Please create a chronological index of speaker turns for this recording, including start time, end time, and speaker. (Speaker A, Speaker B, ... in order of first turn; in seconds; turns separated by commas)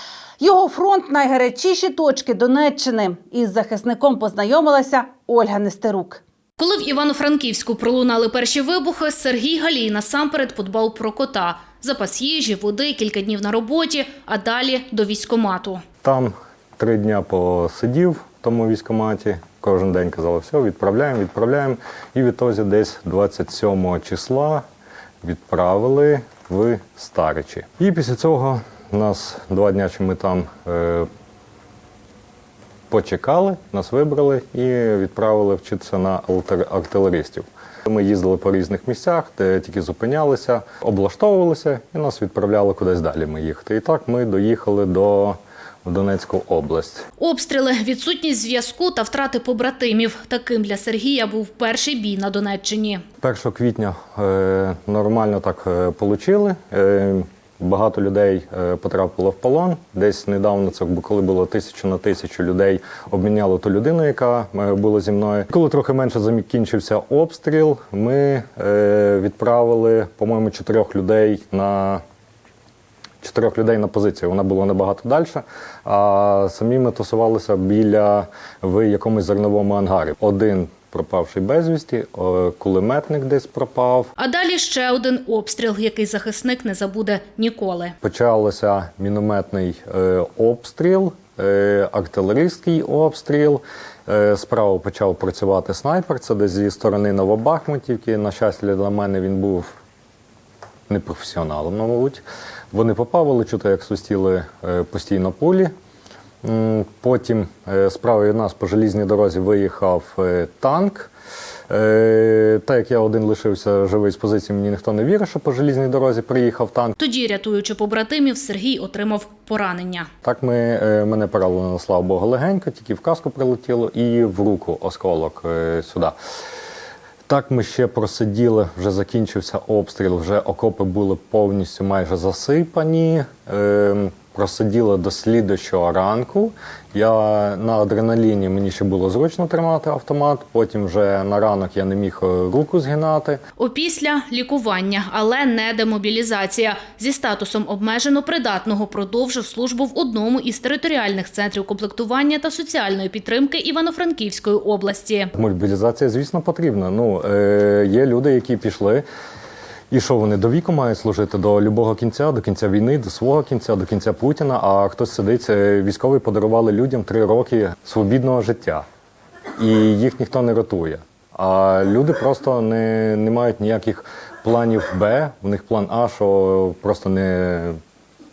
Speaker A: 0.4-6.2, Speaker B: 6.6-15.8, Speaker C: 16.0-24.6, Speaker C: 25.2-31.1, Speaker C: 32.9-47.1, Speaker B: 47.2-53.0, Speaker C: 53.2-72.0, Speaker C: 73.2-84.1, Speaker B: 84.2-88.0, Speaker C: 88.0-99.7, Speaker C: 100.9-105.7, Speaker C: 106.4-111.1, Speaker C: 111.7-117.0, Speaker B: 117.0-120.1, Speaker C: 120.2-126.2, Speaker C: 127.3-143.4, Speaker B: 143.6-155.3, Speaker C: 155.3-159.0, Speaker C: 159.9-168.8, Speaker C: 169.6-177.8